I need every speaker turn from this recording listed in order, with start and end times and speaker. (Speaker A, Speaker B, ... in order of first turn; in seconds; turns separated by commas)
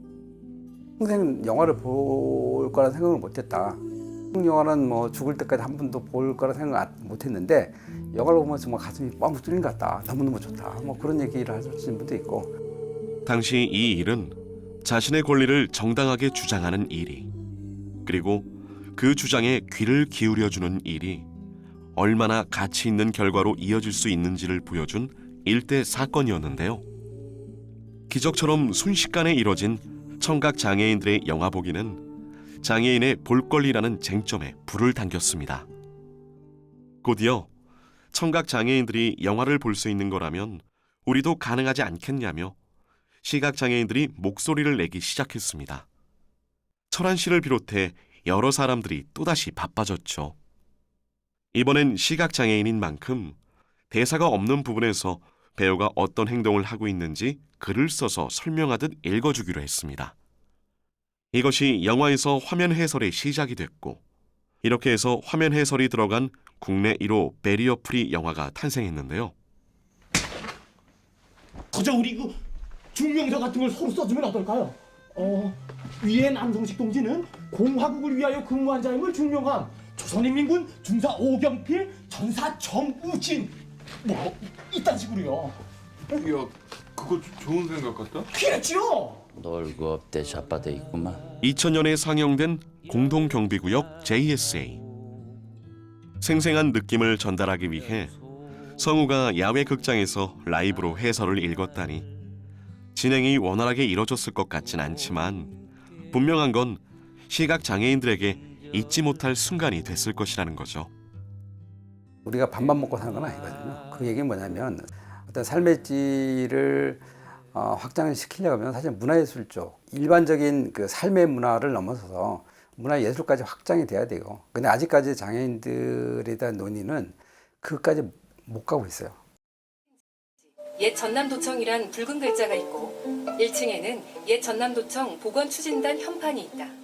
Speaker A: 1.0-12.5, Speaker B: 13.3-17.3, Speaker B: 18.1-21.3, Speaker B: 21.9-26.9, Speaker B: 28.1-32.0, Speaker B: 32.6-35.7, Speaker B: 37.0-37.5, Speaker B: 38.1-42.6, Speaker B: 43.2-45.9, Speaker B: 46.9-50.4, Speaker B: 51.5-53.4, Speaker B: 53.9-60.1, Speaker B: 61.3-64.0, Speaker B: 64.6-69.3, Speaker C: 71.7-72.4, Speaker C: 72.9-85.6, Speaker D: 86.2-88.3, Speaker C: 88.3-89.2, Speaker E: 89.3-91.3, Speaker B: 91.4-94.8, Speaker B: 96.2-98.2, Speaker B: 98.8-102.1, Speaker B: 102.9-105.6, Speaker B: 106.1-110.9, Speaker A: 112.2-129.2, Speaker F: 130.7-136.8